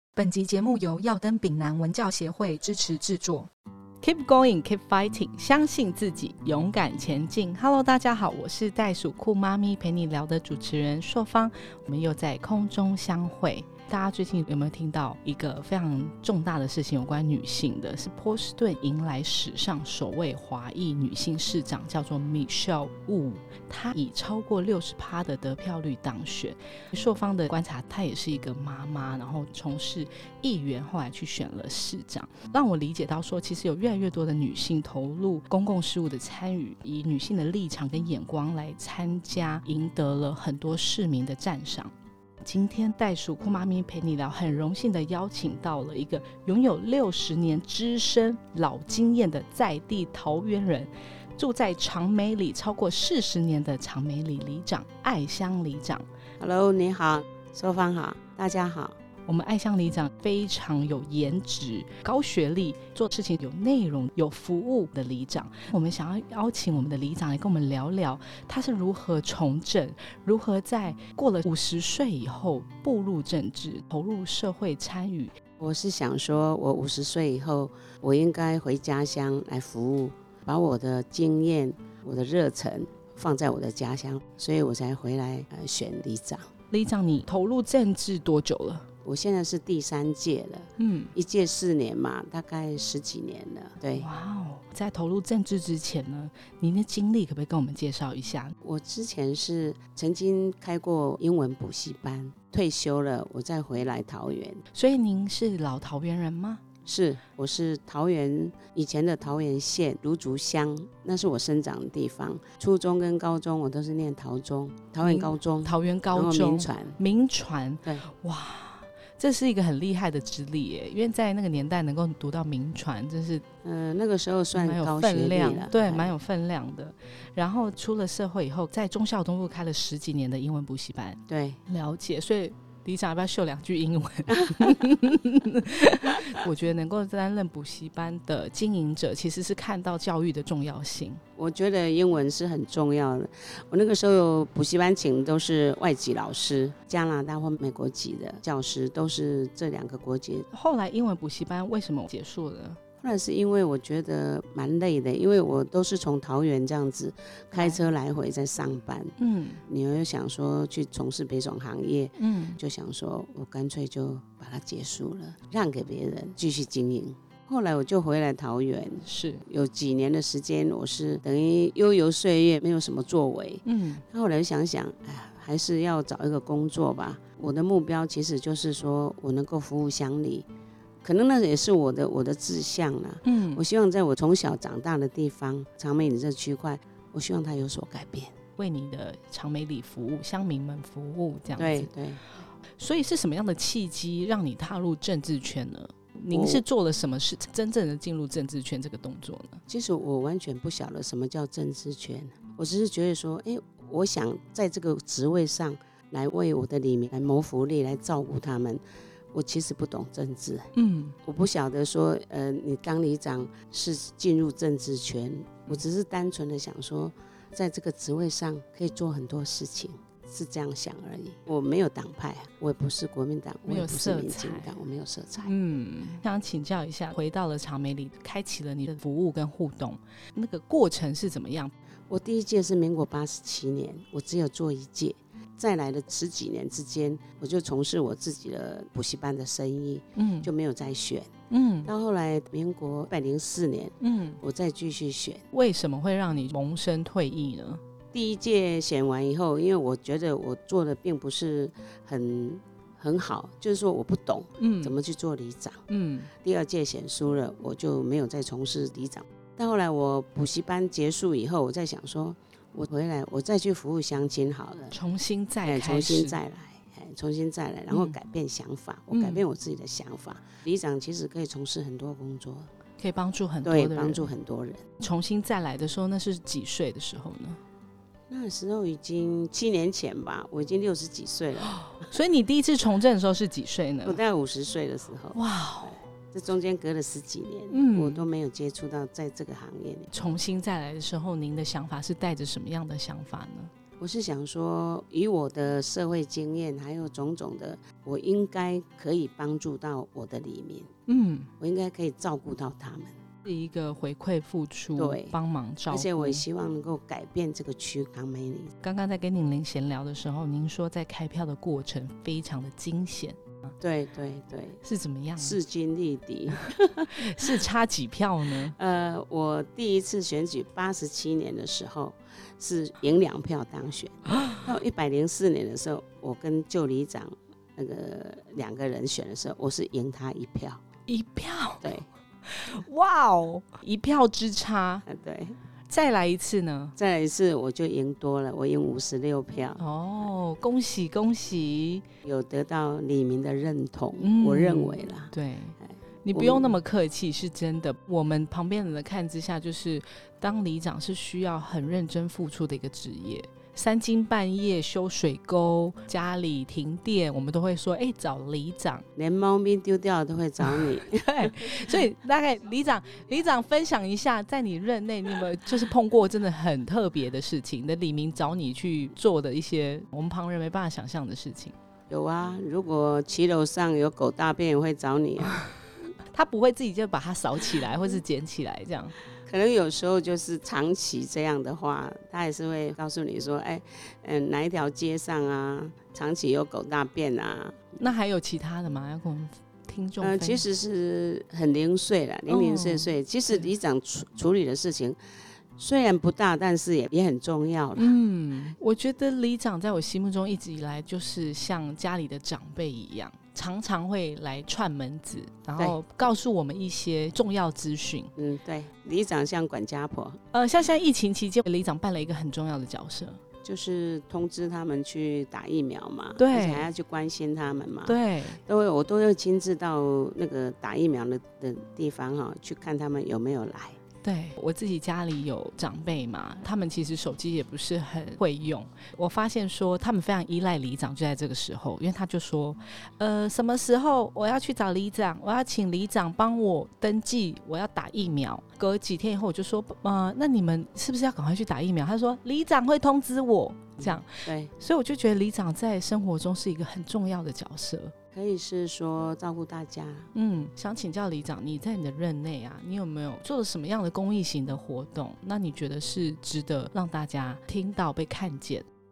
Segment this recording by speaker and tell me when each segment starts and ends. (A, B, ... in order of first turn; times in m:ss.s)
0:00.2-0:03.5 A
0:04.0-0:56.0 B
0:56.4-0:59.0 C
0:59.2-1:15.3 B
1:15.6-1:26.5 C
1:26.7-1:28.9 B
1:29.0-1:34.1 C
1:30.8-1:31.1 B
1:33.9-1:38.5 B
1:38.6-1:44.6 C
1:44.7-1:46.6 B
1:46.8-1:57.0 C
1:55.0-2:03.4 B
2:03.6-2:06.1 C
2:04.6-2:21.2 B
2:11.3-2:11.6 C
2:14.4-2:14.7 C
2:21.4-2:30.4 C
2:30.5-2:32.8 B
2:33.0-3:00.5 C
2:37.5-2:37.8 B
2:39.2-2:39.6 B
2:42.2-2:42.6 B
2:49.0-2:49.4 B
2:53.6-2:54.0 B
3:01.0-3:08.3 C
3:03.2-3:03.6 B
3:08.6-3:11.9 B
3:11.6-3:12.2 C
3:12.8-3:19.6 B
3:16.3-3:16.6 C
3:19.7-3:28.8 C
3:29.3-3:30.7 C
3:30.7-3:31.2 B
3:31.2-3:45.5 C
3:43.7-3:44.7 B
3:45.4-3:51.7 B
3:52.1-4:01.3 C
4:00.2-4:00.5 B
4:01.5-4:01.9 B
4:01.8-4:05.4 C
4:04.0-4:04.4 B
4:05.5-4:07.8 B
4:08.1-4:15.8 C
4:14.6-4:15.0 B
4:15.9-4:16.3 B
4:16.4-4:25.0 C
4:24.9-4:26.4 B
4:25.6-4:32.7 C
4:27.9-4:28.2 B
4:29.1-4:29.4 B
4:33.0-4:34.3 B
4:33.6-4:34.8 C
4:35.0-4:37.6 B
4:38.3-4:42.0 C
4:41.8-4:44.2 B
4:44.0-4:50.1 C
4:45.3-4:46.0 B
4:47.7-4:48.2 B
4:50.1-4:53.7 B
4:54.0-5:00.9 C
5:01.1-5:01.5 B
5:01.6-5:03.1 C
5:03.4-5:06.4 B
5:04.9-5:05.4 C
5:05.9-5:08.7 C
5:08.8-5:13.4 B
5:13.8-5:14.8 C
5:14.8-5:15.6 B
5:15.4-5:17.4 C
5:17.1-5:18.8 B
5:18.8-5:30.8 C
5:31.1-5:31.9 B
5:32.5-5:35.0 B
5:35.1-5:35.6 C
5:35.9-5:36.9 B
5:37.0-5:39.8 C
5:39.8-5:42.0 B
5:42.2-5:46.8 C
5:44.2-5:59.1 B
5:59.2-6:01.9 C
6:00.6-6:11.8 B
6:12.1-6:15.6 C
6:16.3-6:19.2 B
6:19.4-6:28.1 C
6:28.0-6:30.6 B
6:30.2-6:35.2 C
6:32.5-6:33.7 B
6:35.8-6:38.2 C
6:38.0-6:48.3 B
6:48.4-6:50.4 C
6:50.5-6:53.4 B
6:53.6-7:04.0 C
6:56.4-6:56.9 B
6:58.1-6:58.6 B
7:04.2-7:28.1 B
7:24.0-7:24.7 C
7:28.3-7:30.3 C
7:30.3-7:38.8 B